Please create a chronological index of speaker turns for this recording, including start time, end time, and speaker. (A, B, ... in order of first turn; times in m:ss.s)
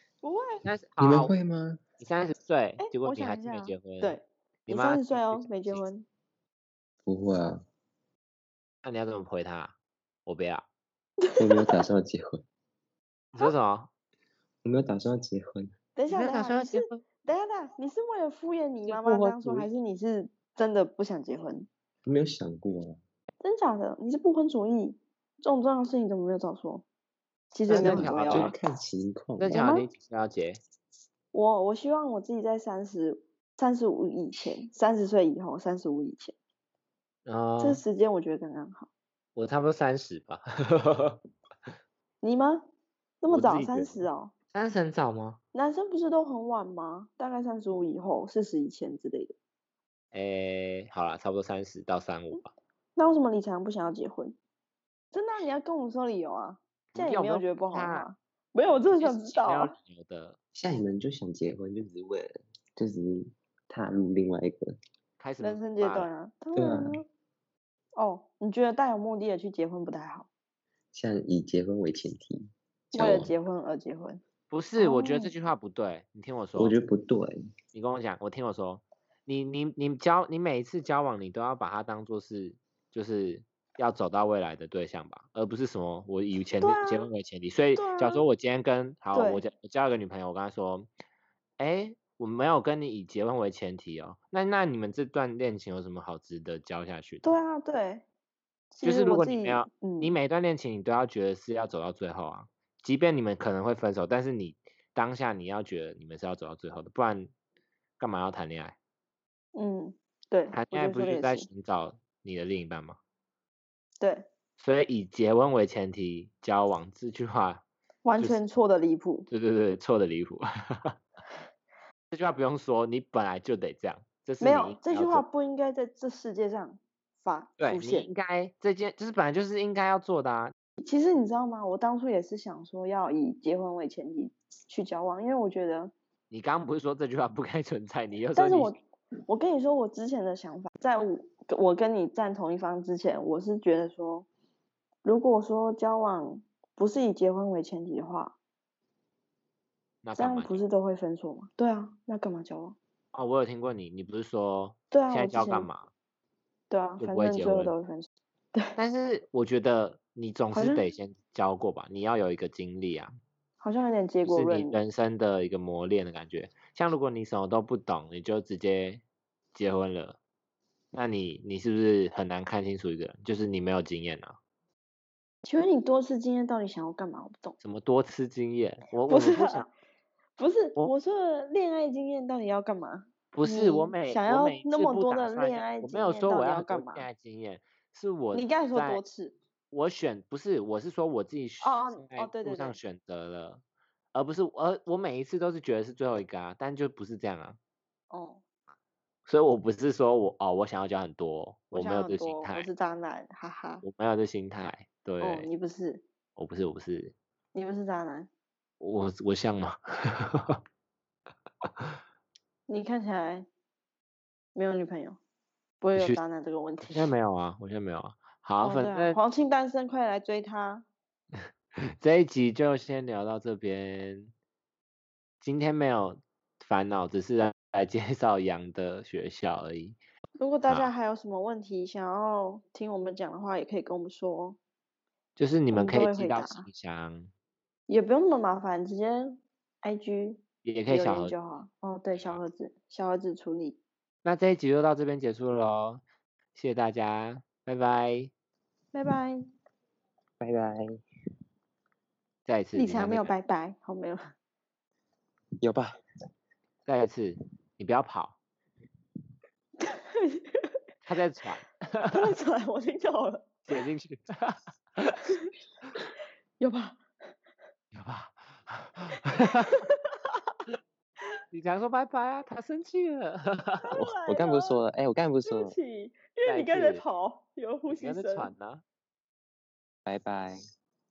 0:00.2-0:00.6 A
0:00.6-0:01.3 B
0:01.0-0:01.8 C
0:02.0-0:05.8 B
0:02.8-0:06.0 A
0:07.0-0:07.6 C
0:08.8-0:09.7 B
0:10.2-0:10.6 B
0:11.2-0:11.8 A
0:11.4-0:12.4 C
0:13.3-0:13.9 B
0:14.6-0:15.7 C
0:16.0-0:21.7 A
0:16.1-0:17.0 B
0:18.8-0:19.7 B
0:22.0-0:23.0 C
0:23.4-0:26.8 A
0:27.5-0:28.5 A
0:27.6-0:28.5 B
0:27.8-0:29.6 C
0:29.4-0:30.6 B
0:29.5-0:29.9 A
0:31.3-0:36.3 A
0:37.2-0:37.8 B
0:37.6-0:38.9 A
0:39.4-0:41.2 B
0:42.2-0:42.6 A
0:43.2-0:44.3 A
0:43.2-0:45.4 B
0:45.5-0:49.3 A
0:50.1-0:52.5 B
0:53.0-0:54.4 A
0:55.1-0:59.7 A
0:56.9-0:58.1 B
0:58.7-1:00.4 B
1:00.5-1:04.8 C
1:05.2-1:06.1 B
1:05.4-1:07.0 A
1:06.6-1:07.0 C
1:07.9-1:10.3 A
1:10.9-1:13.3 C
1:12.9-1:14.2 A
1:14.5-1:16.8 B
1:14.8-1:15.3 A
1:16.5-1:17.4 C
1:17.7-1:30.9 B
1:26.6-1:27.1 A
1:27.8-1:28.2 A
1:29.1-1:29.4 A
1:31.6-1:37.4 B
1:37.2-1:38.0 A
1:38.7-1:40.1 A
1:38.8-1:47.3 B
1:48.0-1:48.8 B
1:49.5-1:51.5 A
1:50.5-1:53.0 B
1:54.0-1:54.3 A
1:54.6-1:57.6 B
1:58.0-1:59.3 A
1:59.3-2:00.9 B
2:02.1-2:05.2 B
2:04.4-2:08.1 A
2:07.6-2:10.5 B
2:10.8-2:15.9 A
2:16.3-2:18.8 B
2:18.3-2:18.7 A
2:19.3-2:24.3 A
2:25.0-2:28.4 A
2:30.0-2:30.6 B
2:30.1-2:32.8 A
2:33.1-2:35.9 B
2:34.9-2:35.7 A
2:36.7-2:38.7 A
2:37.0-2:37.7 B
2:38.8-2:43.2 B
2:40.5-2:40.8 A
2:43.6-2:44.8 A
2:44.2-2:49.0 B
2:49.5-2:50.2 B
2:50.9-2:54.4 B
2:55.4-2:57.6 A
2:57.6-2:59.7 B
2:59.1-2:59.7 A
3:00.4-3:07.1 A
3:03.3-3:09.0 B
3:08.3-3:09.4 A
3:09.7-3:13.6 B
3:11.6-3:12.8 A
3:14.1-3:17.6 B
3:18.1-3:18.4 A
3:19.2-3:22.7 B
3:21.7-3:23.8 A
3:23.8-3:25.5 B
3:25.2-3:26.0 A
3:26.4-3:27.1 B
3:27.5-3:28.3 A
3:28.8-3:30.6 B
3:31.6-3:31.9 B
3:32.7-3:33.5 A
3:34.5-3:35.2 A
3:35.8-3:37.1 A
3:36.8-3:39.2 B
3:38.6-3:40.8 A
3:42.0-3:44.3 B
3:45.4-3:50.0 B
3:50.4-3:54.6 A
3:55.4-3:57.3 B
3:55.7-3:56.6 A
3:57.9-4:03.8 A
4:00.6-4:01.3 B
4:02.1-4:02.4 B
4:04.2-4:06.0 B
4:06.5-4:08.3 B
4:08.9-4:09.4 A
4:10.4-4:10.9 C
4:12.4-4:13.3 B
4:12.7-4:14.3 A
4:15.6-4:15.9 C
4:16.8-4:18.4 B
4:19.8-4:20.8 A
4:21.0-4:22.2 B
4:22.0-4:23.5 A
4:23.7-4:25.1 B
4:26.6-4:27.0 A
4:27.9-4:29.8 B
4:29.4-4:29.9 A
4:31.5-4:33.9 B
4:33.8-4:34.8 A
4:33.9-4:35.8 C
4:35.4-4:38.5 A
4:36.4-4:37.0 B
4:37.9-4:38.8 B
4:40.0-4:40.6 C